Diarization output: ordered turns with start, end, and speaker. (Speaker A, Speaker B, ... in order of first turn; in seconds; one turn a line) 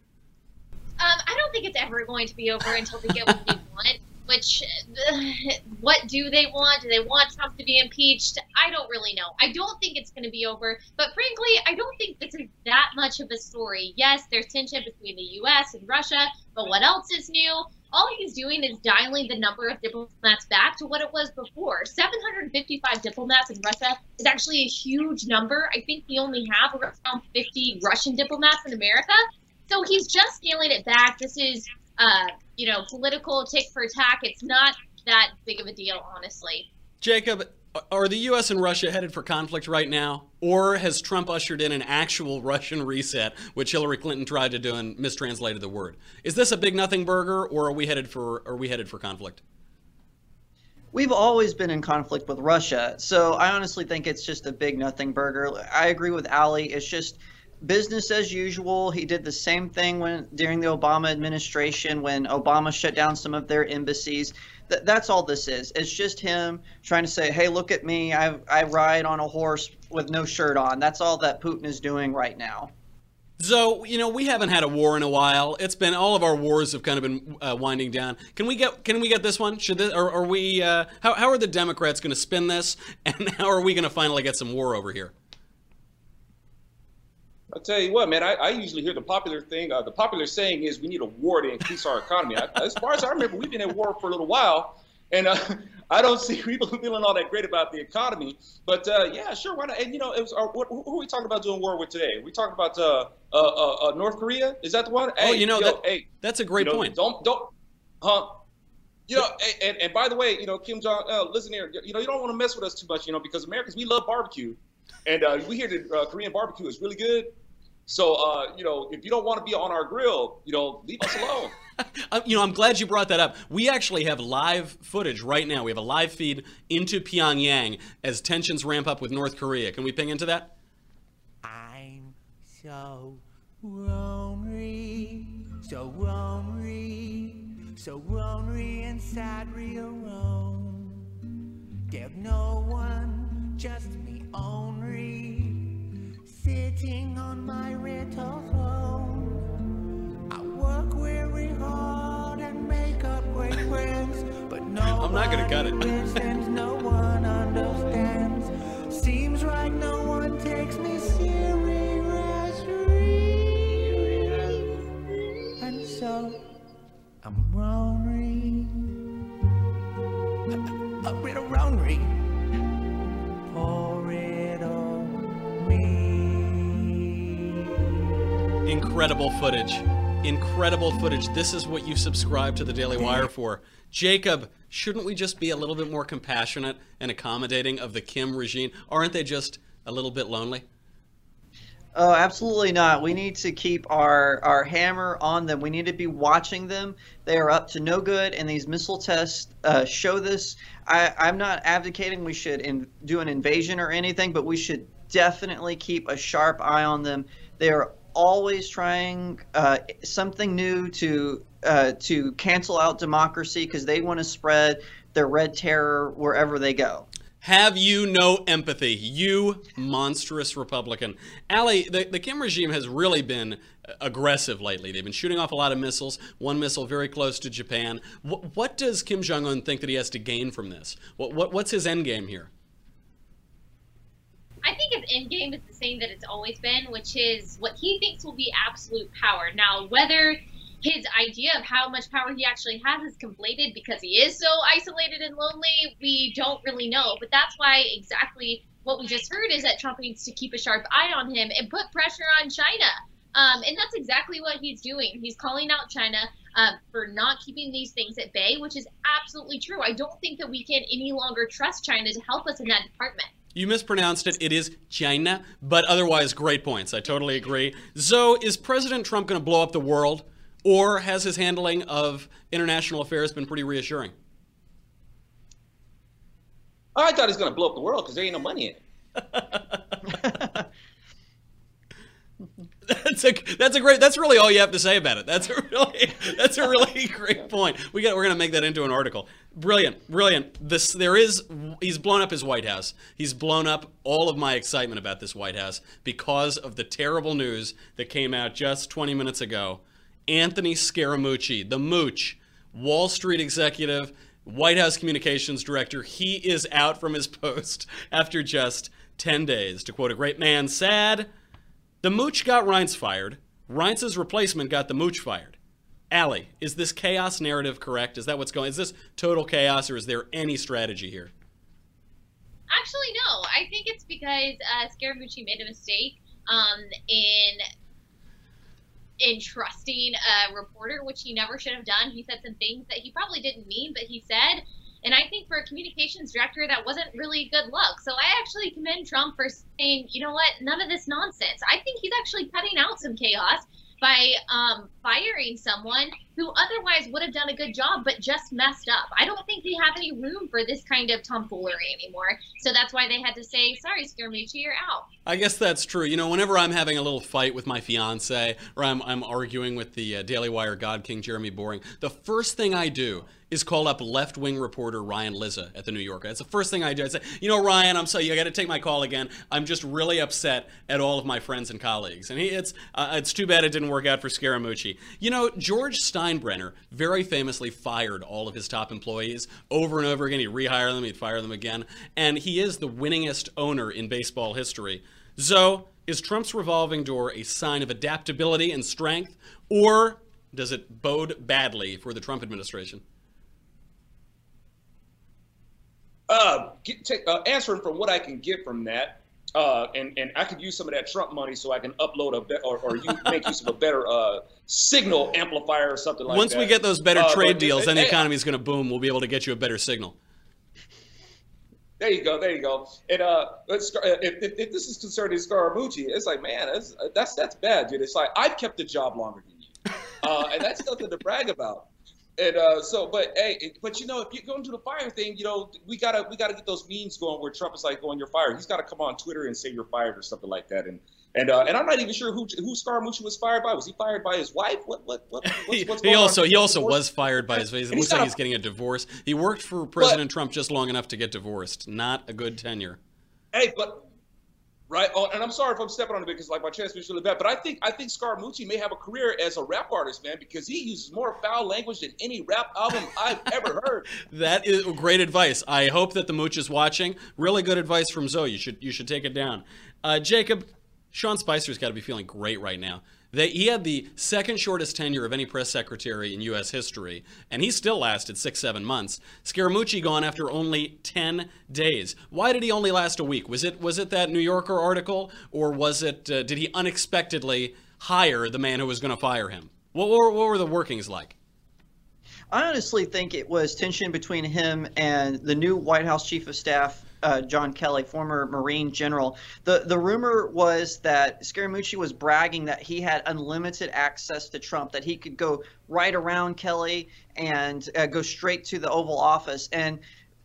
Speaker A: 1.0-36.7
Speaker B: 37.0-49.4
Speaker C: 50.9-72.7
Speaker B: 73.4-85.1
Speaker D: 87.5-108.4
Speaker B: 105.2-107.0
Speaker D: 109.1-117.3
Speaker D: 117.9-121.5
Speaker B: 122.1-130.5
Speaker E: 131.4-141.0
Speaker E: 141.9-149.5
Speaker E: 150.3-164.7
Speaker B: 154.9-155.9
Speaker E: 165.6-166.4
Speaker E: 167.2-168.8
Speaker E: 171.1-172.3
Speaker E: 173.5-177.0
Speaker B: 178.7-190.7
Speaker C: 192.0-217.1
Speaker B: 217.4-232.5
Speaker A: 234.6-263.3
Speaker B: 263.5-274.1
Speaker D: 277.0-278.8
Speaker B: 279.3-279.8
Speaker B: 282.9-311.3
Speaker B: 312.0-315.6
Speaker B: 316.1-321.3
Speaker A: 322.7-327.6
Speaker A: 329.2-355.1
Speaker B: 355.3-393.0
Speaker D: 396.3-408.2
Speaker B: 406.3-410.2
Speaker D: 412.0-438.3
Speaker B: 435.4-443.0
Speaker D: 443.5-444.1
Speaker D: 444.9-454.1
Speaker B: 454.2-481.4
Speaker C: 482.5-500.0